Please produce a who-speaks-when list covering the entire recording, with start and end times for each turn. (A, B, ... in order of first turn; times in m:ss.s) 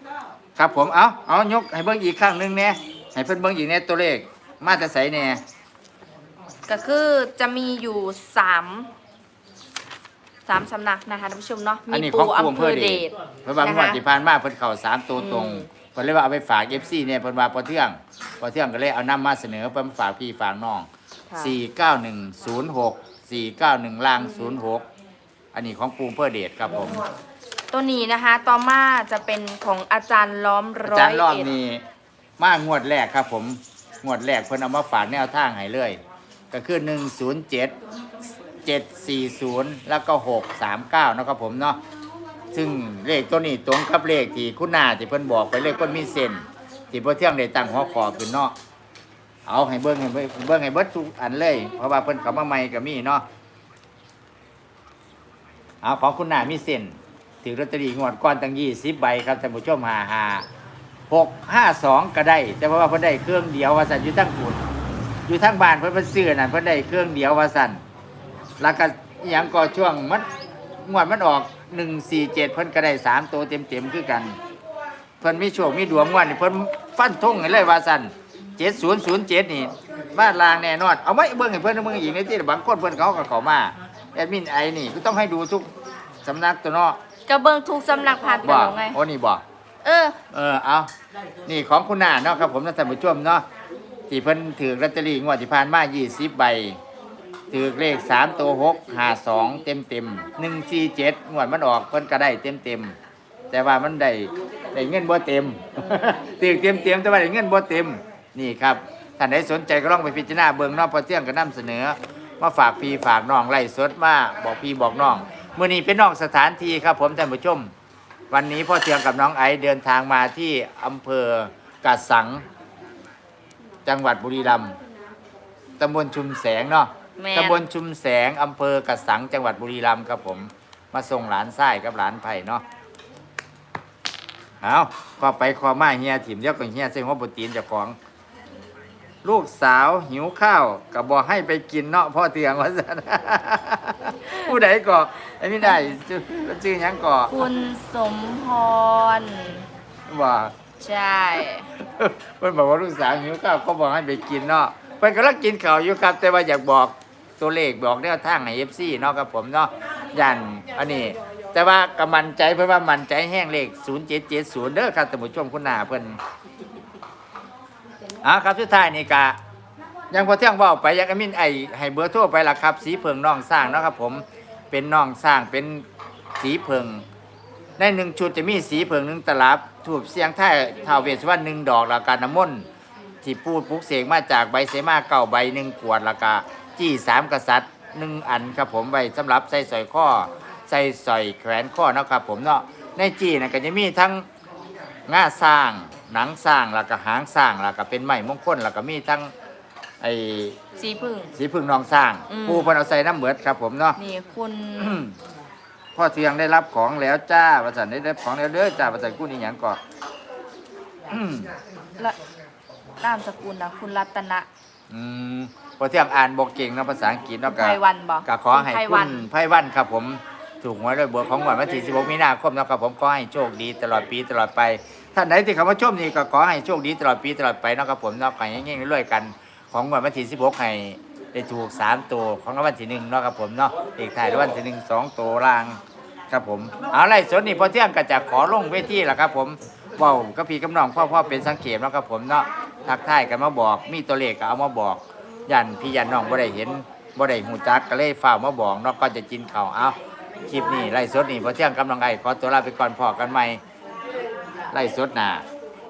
0:00.6-0:05.4 A
0:06.7-0:08.9 B
0:10.5-0:14.0 B
0:11.9-0:24.8 A
0:15.2-0:15.7 B
0:21.3-0:21.6 B
0:25.5-0:27.0 A
0:27.7-0:31.5 B
0:30.8-0:31.8 A
0:32.4-0:36.0 A
0:36.5-0:37.7 A
0:38.6-0:41.8 A
0:42.5-0:48.5 A
0:49.4-0:53.2 A
0:55.8-1:00.4 A
1:01.1-1:04.6 A
1:05.3-1:07.8 A
1:08.6-1:10.3 A
1:10.8-1:14.4 A
1:15.2-1:25.7 A
1:26.2-1:27.0 A
1:27.3-1:29.0 B
1:28.4-1:29.4 A
1:29.8-1:30.2 B
1:30.3-1:30.9 A
1:31.4-1:33.4 A
1:34.1-1:36.8 A
1:37.5-1:43.0 A
1:43.5-1:57.7 A
1:58.3-2:02.4 A
2:03.8-2:04.8 A
2:05.8-2:12.6 A
2:07.2-2:07.6 B
2:14.6-2:18.0 A
2:19.2-2:27.4 A
2:25.6-2:25.9 B
2:27.3-2:29.6 B
2:30.1-2:30.5 A
2:30.8-2:31.7 B
2:31.8-2:46.2 A
2:48.2-2:49.4 A
2:50.1-2:55.8 A
2:56.4-2:57.0 A
2:57.8-3:02.6 A
3:03.2-3:14.2 A
3:15.1-3:19.3 A
3:20.0-3:20.6 A
3:20.8-3:21.3 B
3:21.3-3:24.0 A
3:22.3-3:22.7 B
3:24.0-3:25.0 B
3:24.8-3:25.2 A
3:25.9-3:29.8 A
3:31.1-3:31.5 A
3:33.0-3:34.5 B
3:34.9-4:13.6 A
3:37.5-3:39.2 B
4:14.7-4:15.4 A